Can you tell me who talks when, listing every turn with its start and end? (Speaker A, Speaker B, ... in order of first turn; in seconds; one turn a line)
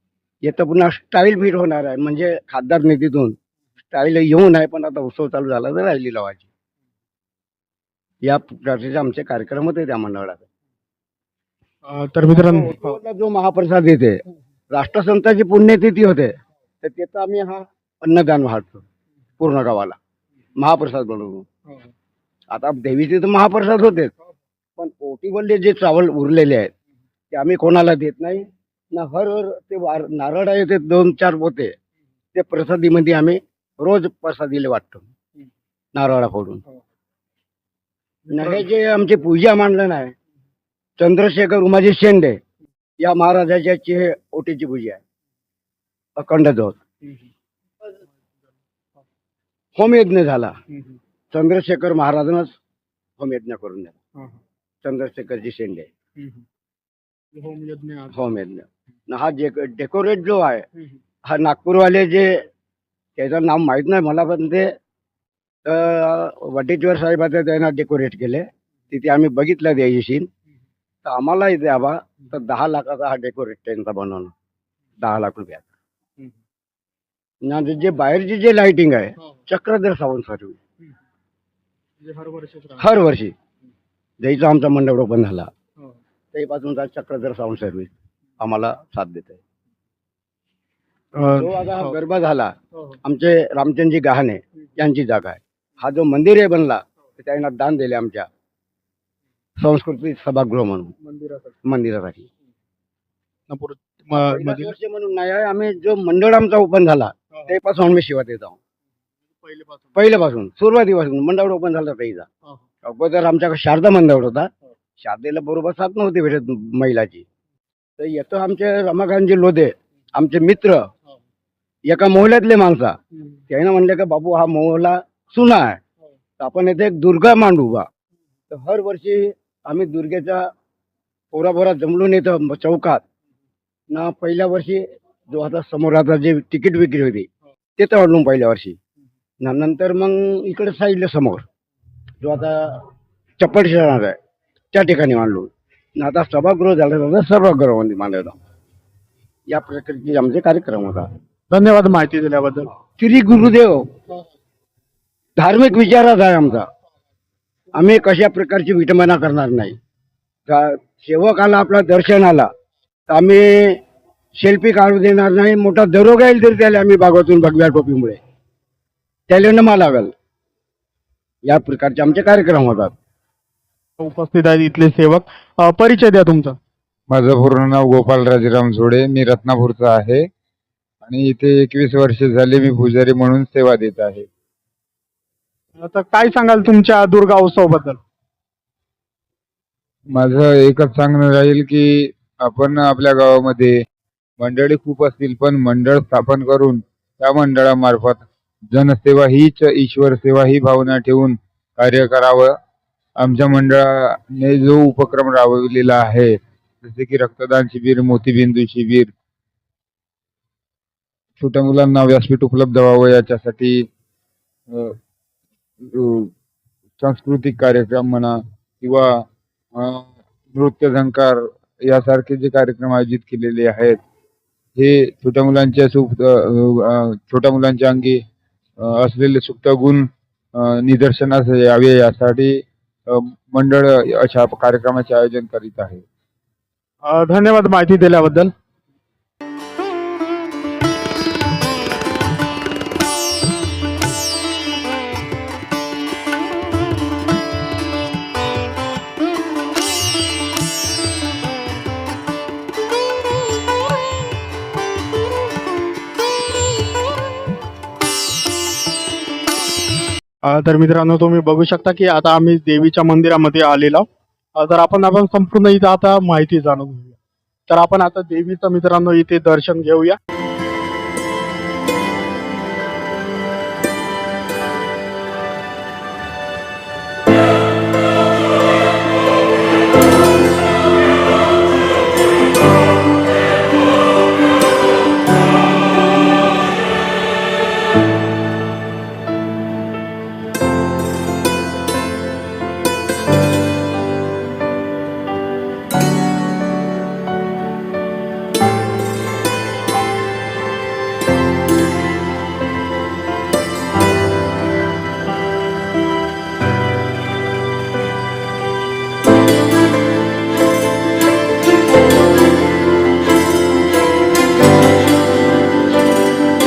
Speaker A: 0.4-3.4
Speaker A: 3.9-6.5
Speaker A: 8.2-10.4
Speaker B: 11.9-13.0
Speaker A: 12.3-18.8
Speaker A: 19.4-20.0
Speaker A: 20.6-21.4
Speaker A: 22.5-24.1
Speaker A: 24.8-26.7
Speaker A: 27.3-31.7
Speaker A: 32.3-35.1
Speaker A: 35.9-36.6
Speaker B: 38.3-38.6
Speaker A: 38.3-40.1
Speaker A: 41.0-42.4
Speaker A: 43.0-45.0
Speaker A: 46.2-46.8
Speaker A: 49.8-50.5
Speaker A: 51.3-52.5
Speaker A: 53.2-54.0
Speaker A: 54.8-55.9
Speaker B: 56.2-56.4
Speaker B: 57.3-58.2
Speaker A: 58.1-60.6
Speaker A: 61.2-62.5
Speaker A: 63.2-64.7
Speaker A: 65.6-70.3
Speaker A: 71.0-74.3
Speaker A: 75.0-75.7
Speaker A: 77.4-80.6
Speaker B: 82.0-82.9
Speaker A: 82.8-83.3
Speaker A: 84.2-85.5
Speaker A: 86.3-89.4
Speaker B: 91.2-92.0
Speaker A: 91.4-98.3
Speaker A: 99.6-100.9
Speaker B: 101.0-101.5
Speaker A: 101.6-102.3
Speaker B: 103.5-104.7
Speaker A: 104.1-108.6
Speaker B: 109.4-110.0
Speaker A: 109.9-112.3
Speaker A: 112.8-117.2
Speaker A: 118.0-120.9
Speaker A: 121.9-123.0
Speaker A: 123.5-125.8
Speaker A: 126.4-127.9
Speaker A: 128.5-130.5
Speaker A: 131.3-133.0
Speaker A: 133.9-138.8
Speaker A: 139.4-141.4
Speaker A: 142.2-142.8
Speaker A: 143.4-144.2
Speaker A: 144.7-148.3
Speaker A: 149.5-151.1
Speaker B: 151.5-152.7
Speaker A: 153.0-153.9
Speaker A: 155.4-156.7
Speaker A: 157.7-159.8
Speaker A: 160.5-162.5
Speaker A: 163.1-163.8
Speaker A: 164.3-168.2
Speaker A: 169.3-170.1
Speaker A: 171.4-172.9
Speaker B: 174.0-176.6
Speaker C: 177.1-180.3
Speaker C: 181.0-184.3
Speaker B: 185.8-188.0
Speaker C: 190.1-193.8
Speaker C: 194.4-202.5
Speaker C: 203.2-209.1
Speaker C: 211.4-213.9
Speaker C: 214.7-215.0
Speaker C: 215.8-216.3
Speaker C: 217.0-224.0
Speaker C: 224.8-228.2
Speaker C: 228.8-236.0
Speaker B: 237.1-238.5
Speaker B: 260.4-264.1
Speaker B: 264.6-267.2
Speaker B: 267.7-270.2